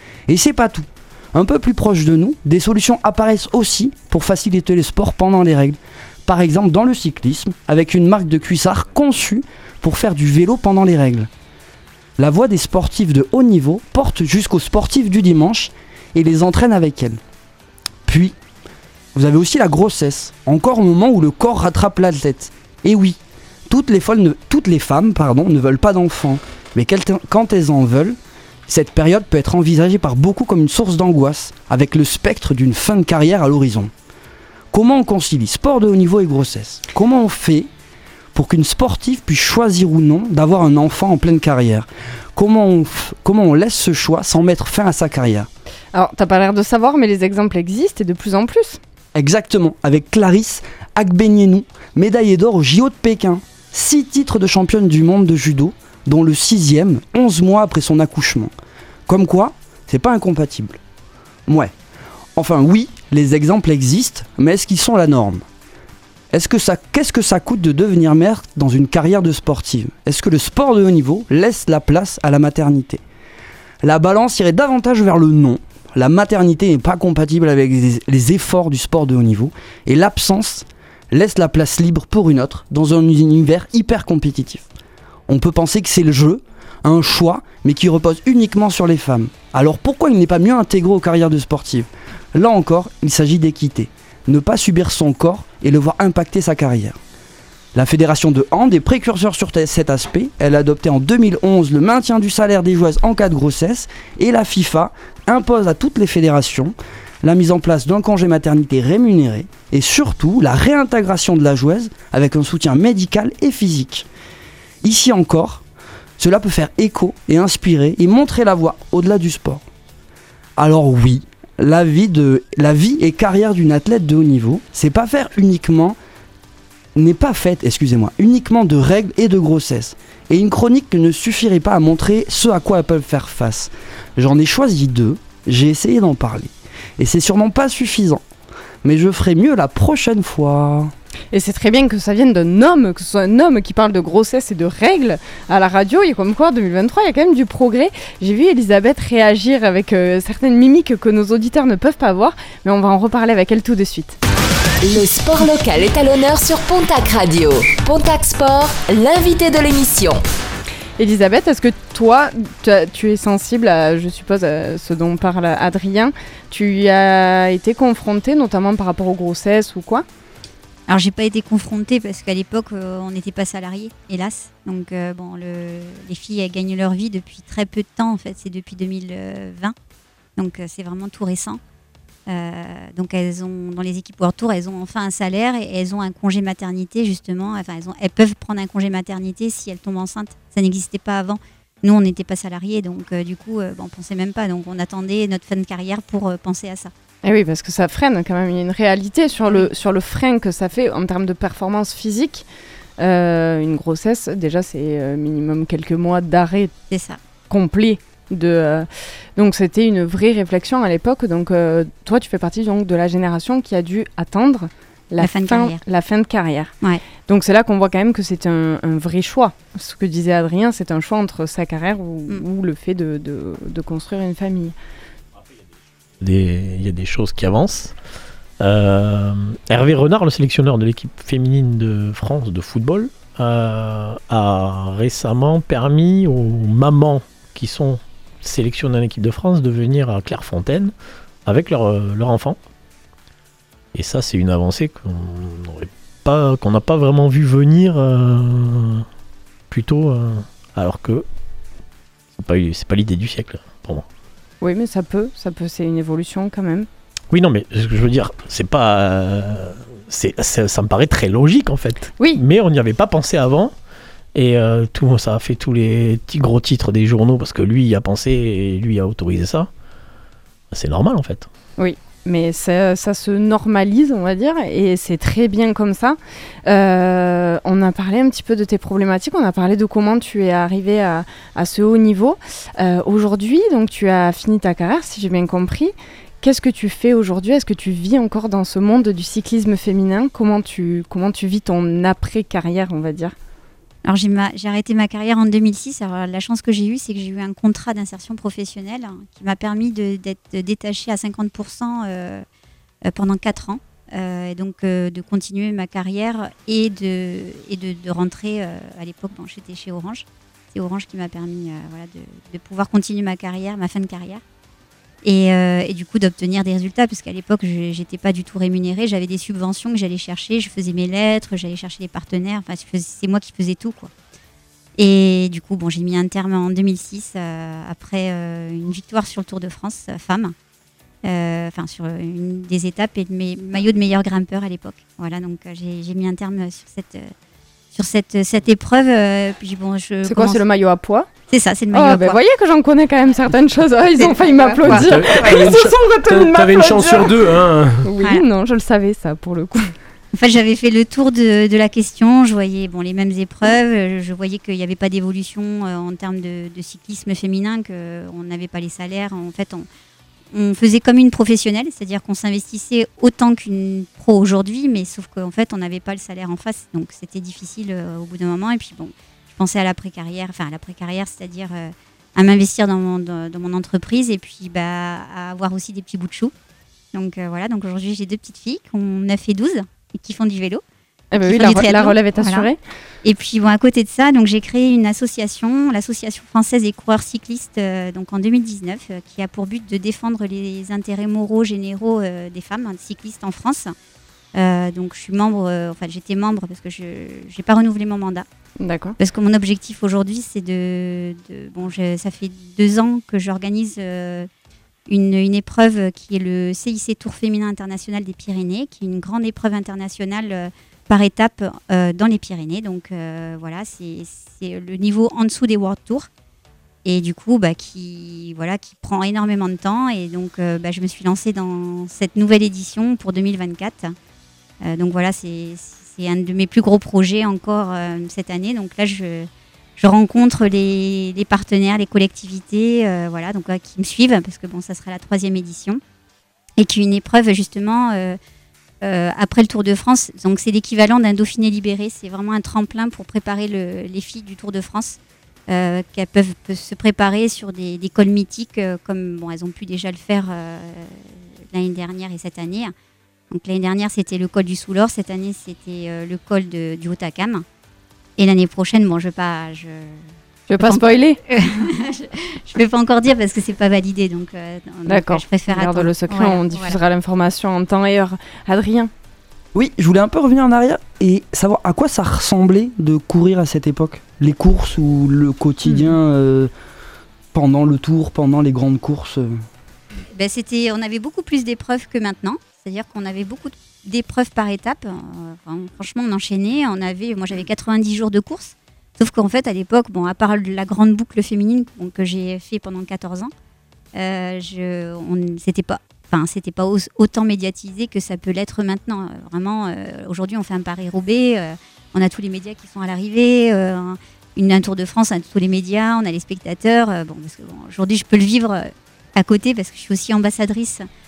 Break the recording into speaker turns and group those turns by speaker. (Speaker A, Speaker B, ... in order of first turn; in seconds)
Speaker A: 0.3-11.3, 12.2-17.2, 18.1-18.3, 19.1-28.2, 28.7-33.9, 34.7-37.7, 38.3-45.5, 49.1-58.5, 59.1-60.8, 61.5-61.7, 62.4-65.4, 66.3-73.0, 73.8-84.7, 85.3-97.0, 97.7-114.0, 114.8-115.6, 116.2-119.6, 120.6-126.0, 127.0-138.2, 138.8-140.9, 469.7-476.7, 477.5-479.5
Speaker B: 45.9-48.8, 141.3-154.2, 161.0-170.0, 197.2-202.4, 203.0-206.7, 207.5-216.7, 217.2-224.7, 254.6-256.9, 271.8-293.3, 340.2-341.3, 341.9-347.4, 348.0-349.9, 381.3-382.8, 398.8-399.1, 460.7-461.4, 465.1-469.1
Speaker C: 154.8-160.2
Speaker D: 170.9-179.7, 180.4-181.6, 182.3-196.9, 206.9-207.2, 215.2-215.8, 294.0-302.4, 303.1-314.4, 315.2-324.1, 325.0-330.5, 331.2-337.3, 337.9-340.6, 341.5-342.4, 344.2-345.6, 350.3-359.9, 360.5-376.5, 377.1-380.8, 381.4-382.7, 383.2-393.9, 394.5-398.4, 399.2-404.5, 405.1-416.3, 417.0-424.1, 424.8-436.0, 436.8-438.4, 439.0-445.2, 445.7-452.9, 453.5-457.6, 458.4-467.0, 480.3-493.5, 494.1-511.1
Speaker E: 226.2-227.9, 228.6-240.9, 241.4-242.6, 243.9-249.1, 249.7-251.2, 252.3-254.1, 257.3-263.7, 264.3-269.7, 270.7-271.5
Speaker F: 344.8-348.1